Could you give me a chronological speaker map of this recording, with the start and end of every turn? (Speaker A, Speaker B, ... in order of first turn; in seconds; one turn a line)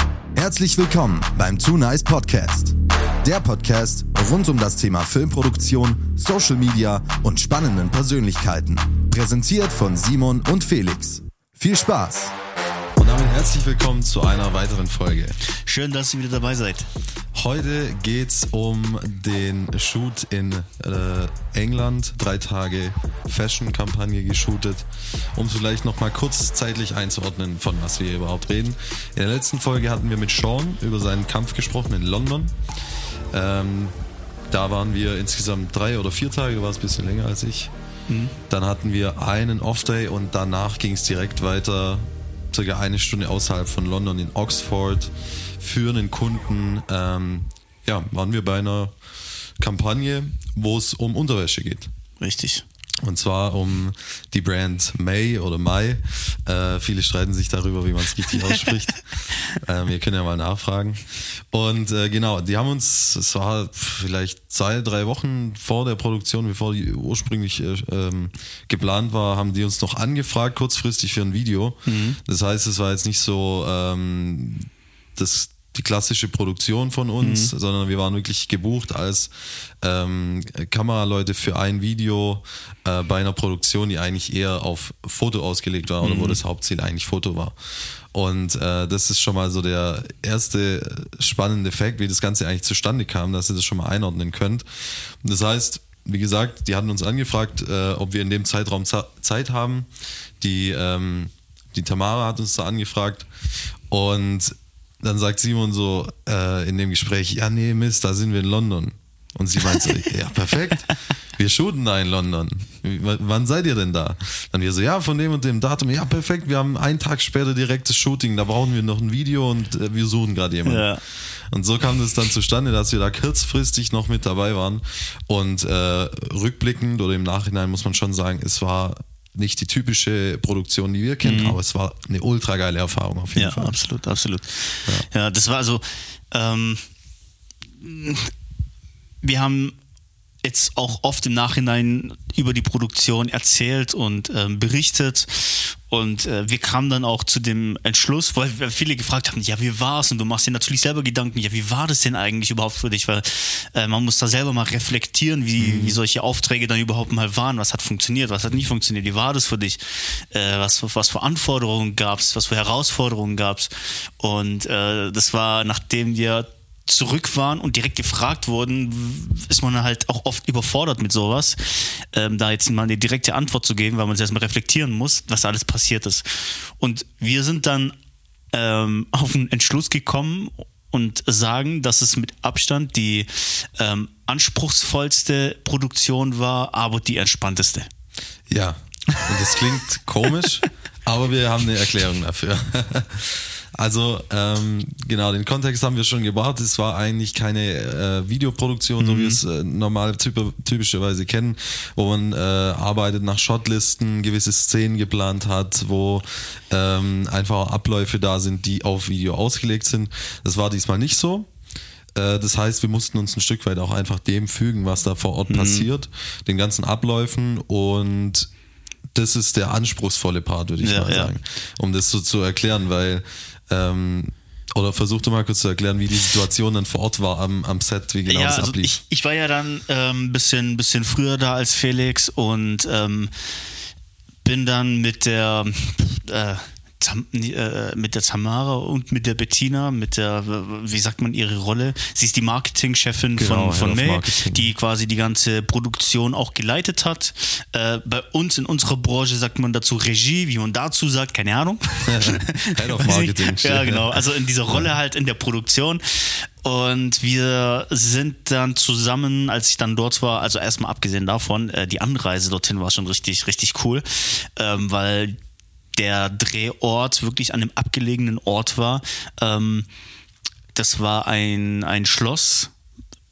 Speaker A: 0.3-12.3
Speaker B: 13.0-15.4
Speaker C: 15.7-16.9
Speaker B: 17.4-32.5
Speaker B: 33.3-33.9
Speaker B: 34.5-37.7
Speaker C: 38.1-38.4
Speaker B: 38.5-48.9
Speaker B: 49.6-51.9
Speaker C: 52.2-52.6
Speaker B: 53.0-79.3
Speaker C: 71.9-72.2
Speaker C: 77.2-77.5
Speaker B: 79.8-87.6
Speaker C: 86.0-86.4
Speaker B: 88.1-94.6
Speaker B: 95.2-99.9
Speaker B: 100.4-103.3
Speaker B: 103.9-120.9
Speaker C: 120.7-121.0
Speaker B: 121.5-133.8
Speaker C: 131.2-131.6
Speaker C: 133.4-136.8
Speaker C: 137.8-138.3
Speaker C: 139.2-139.8
Speaker C: 140.4-177.9
Speaker B: 155.6-156.0
Speaker C: 178.5-187.9
Speaker B: 188.5-211.5
Speaker C: 199.0-199.4
Speaker B: 212.2-218.5
Speaker C: 215.5-215.9
Speaker B: 219.2-228.9
Speaker C: 220.8-221.3
Speaker C: 228.3-233.3
Speaker C: 234.4-265.4
Speaker B: 243.4-244.7
Speaker B: 252.1-254.2
Speaker C: 266.0-269.9
Speaker C: 270.8-272.7